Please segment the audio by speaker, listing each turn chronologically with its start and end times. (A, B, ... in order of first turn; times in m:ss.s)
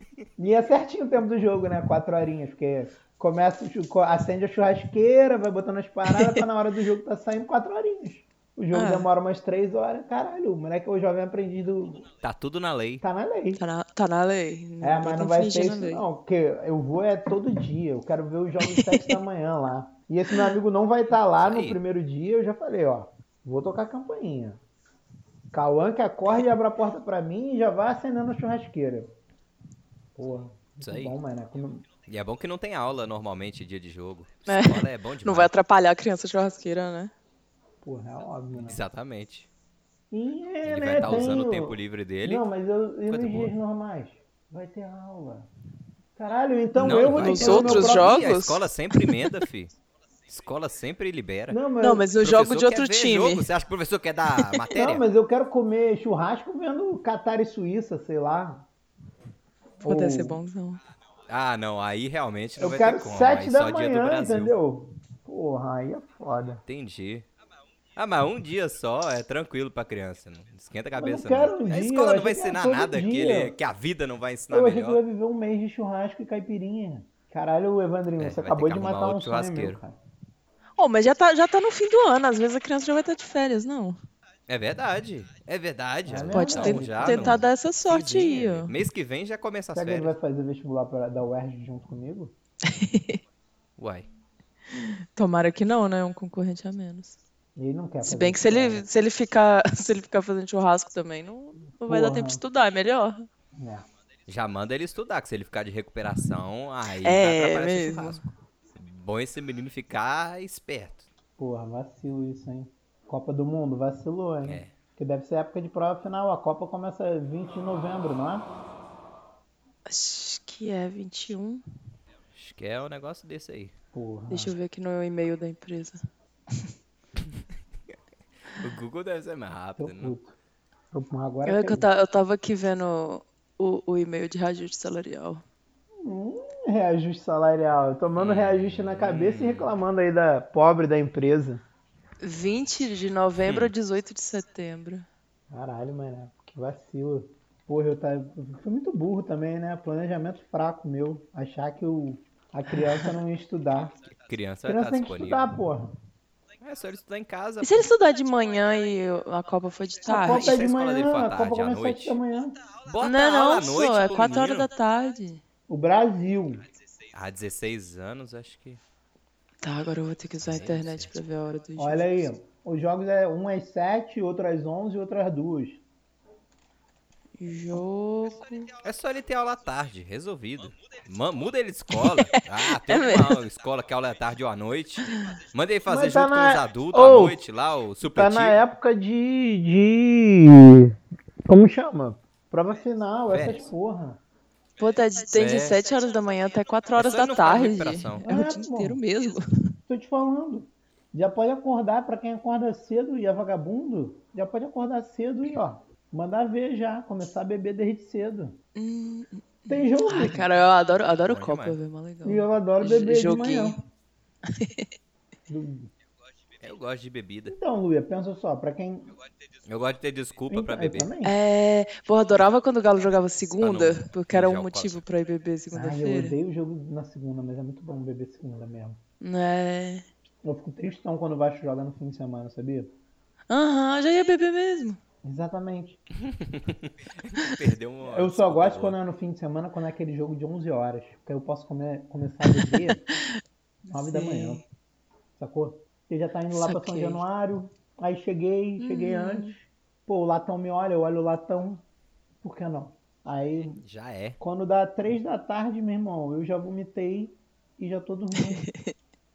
0:00.4-0:12.1 A
0:06.1-0:06.4 B
0:08.7-0:09.1 B
0:12.2-0:13.0 C
0:13.0-0:13.6 A
0:13.6-0:16.0 B
0:14.8-0:24.6 A
0:18.7-0:19.1 B
0:21.4-0:21.8 C
0:25.5-0:29.1 A
0:30.2-0:31.8 A
0:30.8-0:31.1 C
0:32.1-0:35.5 C
0:34.5-0:37.1 B
0:37.8-0:38.8 A
0:38.6-0:39.5 C
0:40.1-0:45.5 A
0:40.6-0:42.4 C
0:43.1-0:43.5 C
0:46.2-0:48.3 A
0:46.8-0:49.8 C
0:47.1-0:49.3 B
0:50.3-0:51.6 C
0:51.5-0:52.1 A
0:51.8-0:53.5 B
0:52.2-0:55.0 C
0:54.7-0:58.7 A
0:59.8-1:00.4 A
0:59.8-1:00.8 B
1:01.3-1:04.5 C
1:02.6-1:06.6 A
1:06.6-1:07.2 C
1:08.0-1:15.0 C
1:11.0-1:13.6 A
1:14.5-1:20.0 A
1:18.2-1:19.8 C
1:20.8-1:24.0 B
1:24.5-1:30.1 C
1:26.0-1:27.4 A
1:26.3-1:28.7 B
1:29.7-1:32.3 A
1:32.6-1:33.2 B
1:33.8-1:34.1 C
1:34.7-1:37.2 B
1:37.6-1:38.8 A
1:38.0-1:43.3 B
1:41.8-1:42.4 A
1:43.6-1:43.8 A
1:44.3-1:51.1 C
1:47.0-1:48.2 B
1:51.4-1:58.5 A
1:54.4-1:54.7 C
1:59.8-2:01.6 B
2:02.3-2:03.7 C
2:03.9-2:04.5 A
2:04.3-2:06.7 B
2:08.5-2:10.1 C
2:09.8-2:10.3 A
2:10.9-2:11.9 A
2:11.4-2:15.4 B
2:16.0-2:21.6 A
2:18.2-2:19.7 C
2:22.2-2:25.1 B
2:25.5-2:33.9 A
2:32.7-2:33.1 B
2:34.0-2:35.5 C
2:34.6-2:36.0 A
2:36.6-2:37.9 C
2:37.6-2:40.6 B
2:40.0-2:42.6 A
2:40.2-2:42.2 C
2:42.8-2:44.7 C
2:43.0-2:45.4 B
2:45.7-2:46.6 A
2:47.1-2:48.8 C
2:49.6-2:52.3 B
2:50.4-2:51.1 C
2:51.8-2:55.8 A
2:57.4-2:58.7 B
2:58.8-3:08.6 C
3:01.9-3:03.4 B
3:05.9-3:07.4 A
3:08.1-3:14.2 A
3:13.3-3:13.7 C
3:14.8-3:19.7 B
3:15.3-3:15.8 C
3:17.0-3:18.2 C
3:18.2-3:19.0 A
3:19.9-3:28.6 A
3:28.7-3:33.8 B
3:29.7-3:30.5 A
3:31.2-3:31.8 C
3:32.2-3:33.8 A
3:34.5-3:34.9 B
3:35.5-3:35.9 A
3:36.6-3:37.5 C
3:37.4-3:39.1 A
3:39.6-3:41.1 C
3:40.5-3:41.4 A
3:41.2-3:46.4 B
3:43.6-3:45.0 C
3:45.7-3:49.0 A
3:49.2-3:50.0 B
3:50.4-3:52.9 A
3:53.5-3:55.0 B
3:55.2-3:56.0 A
3:56.2-3:59.0 C
3:58.0-4:03.0 A
4:02.5-4:02.8 B
4:03.9-4:04.6 A
4:04.1-4:04.6 B
4:05.4-4:11.8 A
4:06.5-4:07.2 B
4:08.8-4:09.5 B
4:12.4-4:13.8 A
4:13.8-4:14.4 C
4:14.4-4:18.6 A
4:18.4-4:18.9 B